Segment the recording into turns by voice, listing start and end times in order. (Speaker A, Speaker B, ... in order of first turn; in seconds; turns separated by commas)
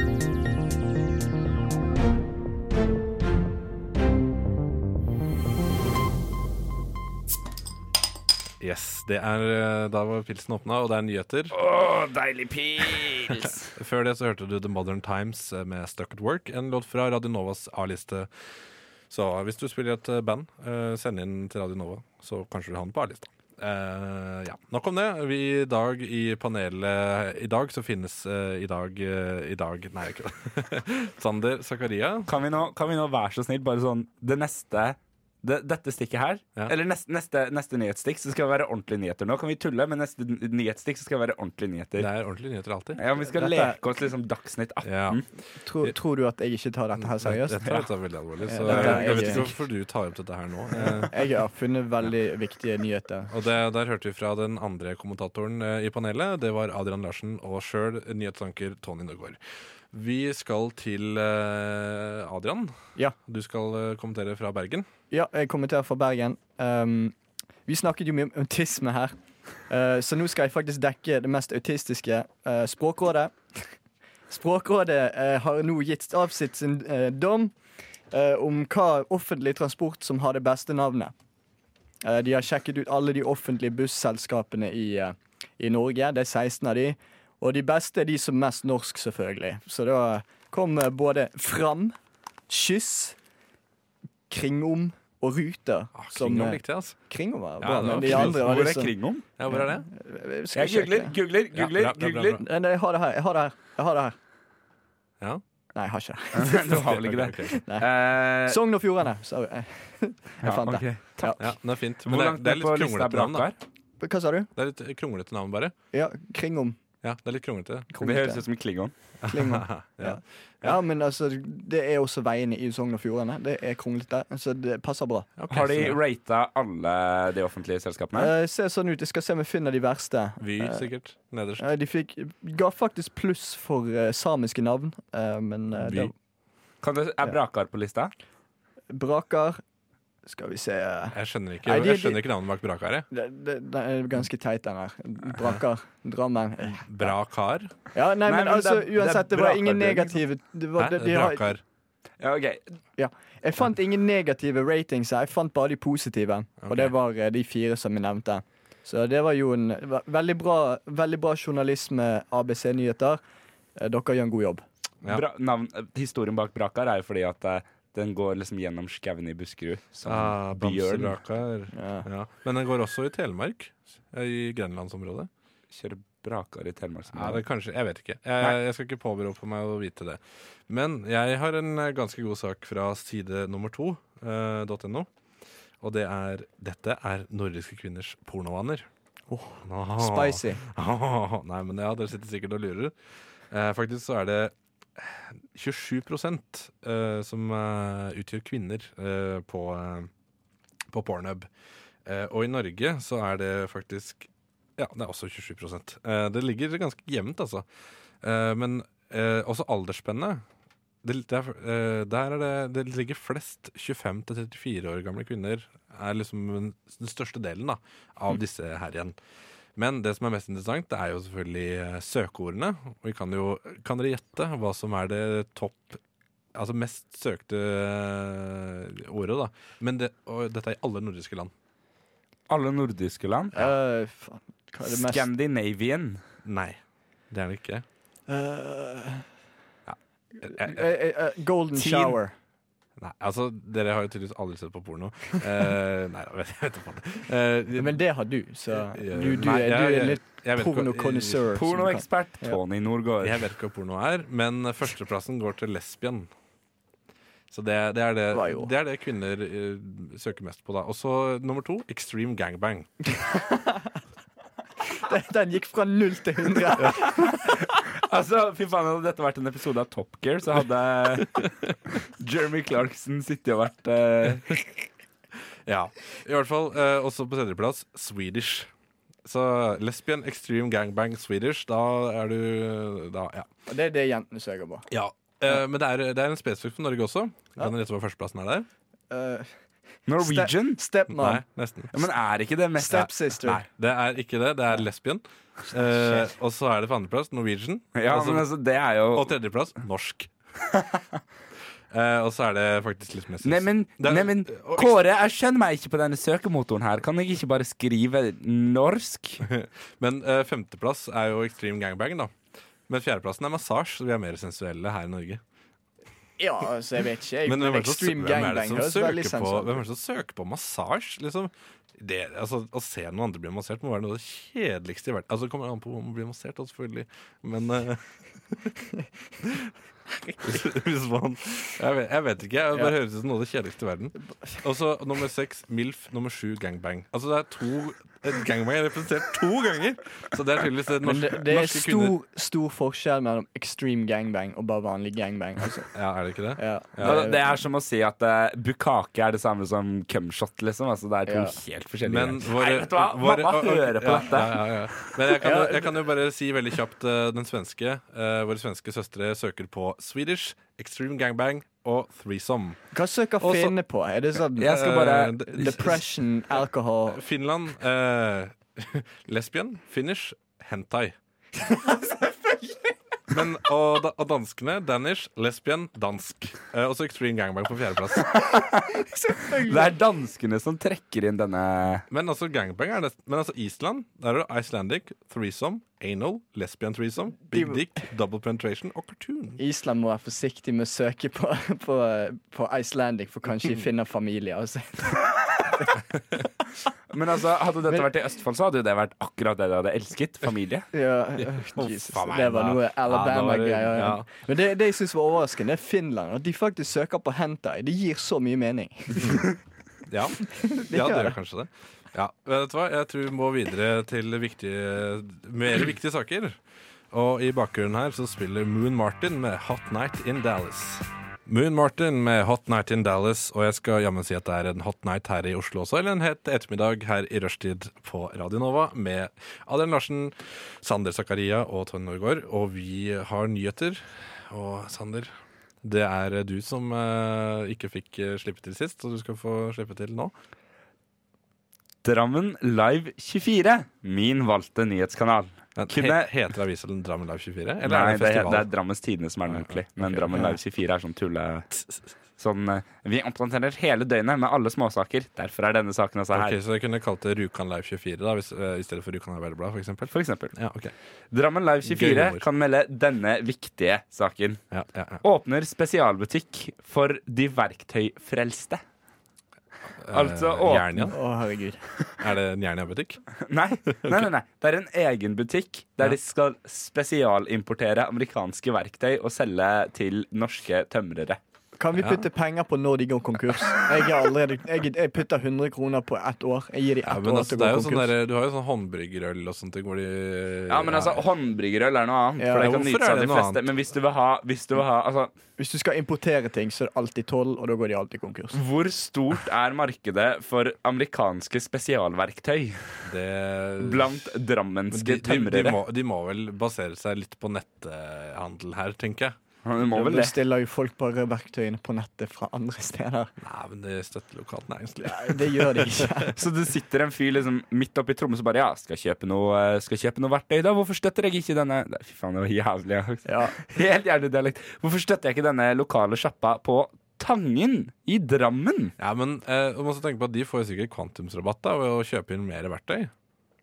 Speaker A: 8.6-11.5, Speaker B: 11.5-13.7, Speaker A: 13.4-18.3, Speaker A: 19.1-32.3, Speaker B: 32.3-42.1, Speaker A: 42.0-43.0, Speaker B: 43.0-45.2, Speaker C: 43.3-43.8, Speaker A: 44.8-45.3, Speaker C: 45.6-47.9, Speaker A: 47.0-51.1, Speaker C: 48.4-49.5, Speaker B: 48.7-49.4, Speaker C: 50.7-53.3, Speaker A: 53.3-59.4, Speaker A: 59.9-64.9, Speaker C: 65.1-67.1, Speaker C: 67.7-69.1, Speaker C: 69.7-73.6, Speaker C: 74.3-77.5, Speaker C: 78.1-81.1, Speaker C: 82.0-92.0, Speaker C: 92.5-93.2, Speaker C: 94.3-98.9, Speaker A: 96.0-97.0, Speaker A: 97.6-98.6, Speaker B: 97.8-99.2, Speaker A: 99.4-99.9, Speaker C: 99.5-101.1, Speaker B: 100.5-102.4, Speaker A: 101.5-102.4, Speaker C: 102.3-104.1, Speaker C: 105.7-106.8, Speaker B: 106.3-108.6, Speaker A: 106.6-107.6, Speaker C: 107.5-107.9, Speaker C: 108.4-111.5, Speaker B: 110.4-111.4, Speaker A: 111.4-113.5, Speaker B: 112.0-113.6, Speaker C: 114.0-114.5, Speaker A: 114.5-115.7, Speaker C: 115.9-116.8, Speaker A: 117.0-117.9, Speaker C: 117.9-118.4, Speaker B: 118.0-118.9, Speaker A: 119.2-120.8, Speaker C: 119.3-125.3, Speaker A: 125.4-126.0, Speaker B: 125.5-128.3, Speaker C: 128.1-130.9, Speaker A: 130.4-131.7, Speaker C: 131.6-136.1, Speaker A: 135.7-136.1, Speaker B: 136.8-138.1, Speaker C: 138.9-139.6, Speaker C: 140.2-142.2, Speaker A: 141.1-143.1, Speaker C: 143.1-147.1, Speaker A: 146.8-147.7, Speaker C: 147.9-151.5, Speaker B: 148.2-150.2, Speaker A: 150.8-151.6, Speaker B: 152.2-152.7, Speaker C: 153.0-163.2, Speaker A: 156.6-156.9, Speaker C: 163.8-164.6, Speaker B: 165.1-171.2, Speaker A: 170.0-175.3, Speaker C: 171.7-172.1, Speaker B: 175.7-177.4, Speaker A: 177.1-185.1, Speaker A: 185.8-188.9, Speaker C: 189.3-190.6, Speaker A: 189.6-192.9, Speaker A: 193.5-200.1, Speaker A: 200.9-201.5, Speaker A: 202.0-207.6, Speaker A: 208.2-210.4, Speaker A: 211.0-219.2, Speaker A: 219.8-226.0, Speaker A: 226.5-231.5, Speaker B: 232.5-233.6, Speaker C: 233.5-235.3, Speaker B: 234.8-236.2, Speaker A: 236.4-236.8, Speaker A: 237.3-237.8, Speaker C: 238.3-239.2, Speaker A: 239.9-240.8, Speaker C: 240.4-242.3, Speaker B: 241.8-242.2, Speaker A: 243.0-248.0, Speaker C: 247.8-252.6, Speaker A: 248.7-251.5, Speaker B: 251.5-253.4, Speaker A: 253.2-256.3, Speaker A: 257.5-262.9, Speaker C: 258.3-258.7, Speaker C: 264.9-267.6, Speaker B: 268.0-271.4, Speaker B: 272.1-274.8, Speaker A: 275.6-278.7, Speaker A: 279.2-283.5, Speaker C: 283.7-284.9, Speaker A: 284.9-288.7, Speaker C: 289.1-289.5, Speaker B: 290.1-290.8, Speaker C: 290.1-291.4, Speaker A: 291.1-291.9, Speaker B: 291.9-293.5, Speaker C: 292.8-293.6, Speaker A: 293.4-298.5, Speaker C: 295.9-296.2, Speaker B: 297.9-299.3, Speaker A: 299.1-300.3, Speaker A: 301.9-305.0, Speaker B: 303.4-309.4, Speaker A: 309.4-312.3, Speaker A: 312.9-315.4, Speaker C: 316.4-319.8, Speaker A: 317.4-328.8, Speaker A: 329.4-329.7, Speaker A: 330.4-342.2, Speaker C: 341.0-345.9, Speaker A: 345.9-347.2, Speaker C: 346.6-347.4, Speaker B: 347.0-355.2, Speaker C: 351.3-351.5, Speaker A: 352.0-362.8, Speaker C: 355.4-356.0, Speaker C: 362.9-364.9, Speaker A: 363.4-363.8, Speaker A: 364.6-366.0, Speaker B: 364.6-365.4, Speaker C: 365.5-367.2, Speaker A: 367.1-371.1, Speaker C: 371.6-372.5, Speaker A: 373.3-378.3, Speaker B: 378.4-378.8, Speaker C: 379.0-379.9, Speaker B: 379.6-382.0, Speaker A: 382.1-389.6, Speaker C: 387.5-387.8, Speaker C: 389.6-396.4, Speaker B: 397.1-400.9, Speaker C: 400.9-409.5, Speaker A: 401.4-404.3, Speaker A: 409.2-409.4, Speaker A: 410.1-416.6, Speaker C: 410.7-411.3, Speaker A: 417.1-440.3, Speaker B: 442.0-446.3, Speaker A: 445.8-448.7, Speaker B: 447.8-451.7, Speaker A: 449.5-450.5, Speaker A: 451.7-452.0, Speaker B: 452.4-456.6, Speaker A: 456.3-460.9, Speaker B: 460.1-460.5, Speaker B: 461.3-464.6, Speaker A: 461.8-462.4, Speaker A: 464.7-465.2, Speaker B: 465.2-468.8, Speaker A: 470.0-471.2, Speaker B: 470.1-471.1, Speaker C: 471.1-471.8, Speaker A: 472.2-473.2, Speaker B: 473.4-481.4, Speaker A: 473.9-474.3, Speaker C: 481.8-488.1, Speaker A: 481.9-482.2, Speaker A: 487.0-491.2, Speaker B: 490.7-495.3, Speaker C: 492.4-492.8, Speaker A: 492.5-493.7, Speaker C: 495.6-498.6, Speaker B: 498.5-502.8, Speaker A: 503.0-504.3, Speaker B: 503.8-505.8, Speaker A: 504.9-509.4, Speaker B: 509.6-510.3, Speaker C: 509.9-513.3, Speaker A: 513.4-516.3, Speaker C: 515.0-516.3, Speaker B: 516.3-528.9, Speaker C: 523.2-523.6, Speaker A: 529.0-533.1